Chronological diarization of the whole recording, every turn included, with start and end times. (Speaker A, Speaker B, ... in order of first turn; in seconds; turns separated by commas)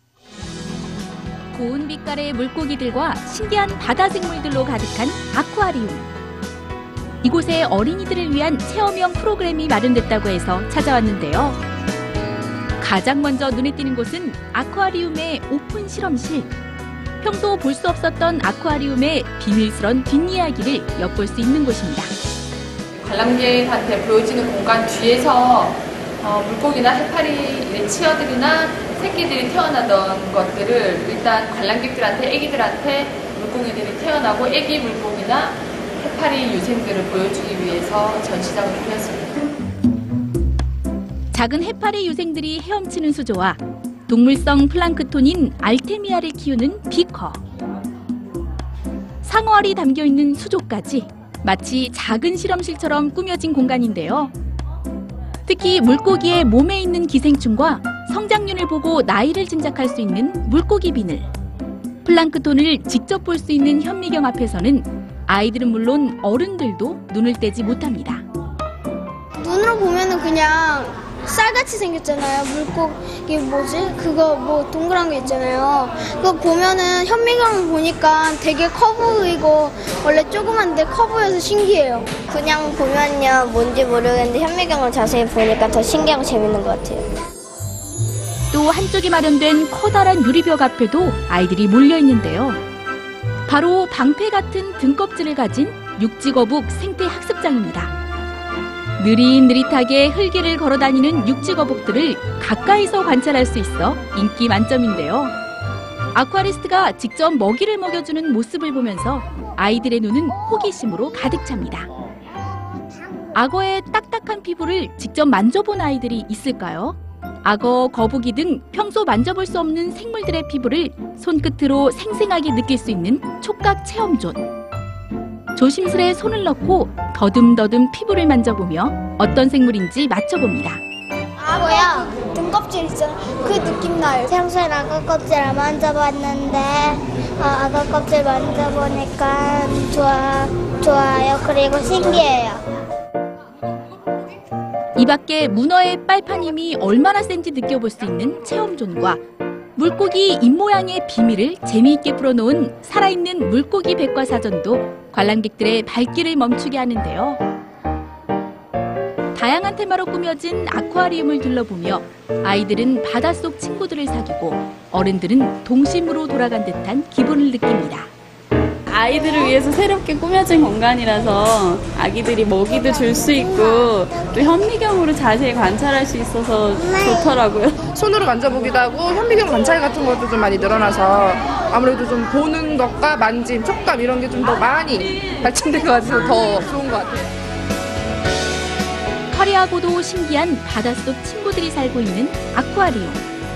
Speaker A: 1.5-6.1, Speaker A: 7.2-11.6, Speaker A: 12.8-16.5, Speaker A: 17.2-22.1, Speaker B: 23.0-39.4, Speaker A: 41.3-47.4, Speaker A: 49.2-54.3, Speaker A: 55.5-61.3, Speaker A: 62.0-68.2, Speaker C: 69.4-82.1, Speaker A: 88.5-92.6, Speaker A: 93.5-97.9, Speaker A: 99.0-105.3, Speaker A: 106.1-111.9, Speaker A: 113.3-124.4, Speaker A: 125.6-130.8, Speaker C: 131.4-134.3, Speaker D: 131.6-132.1, Speaker D: 134.3-142.6, Speaker A: 145.0-149.2, Speaker A: 149.8-157.4, Speaker A: 159.3-168.1, Speaker E: 168.9-177.7, Speaker F: 177.9-187.3, Speaker A: 189.3-193.2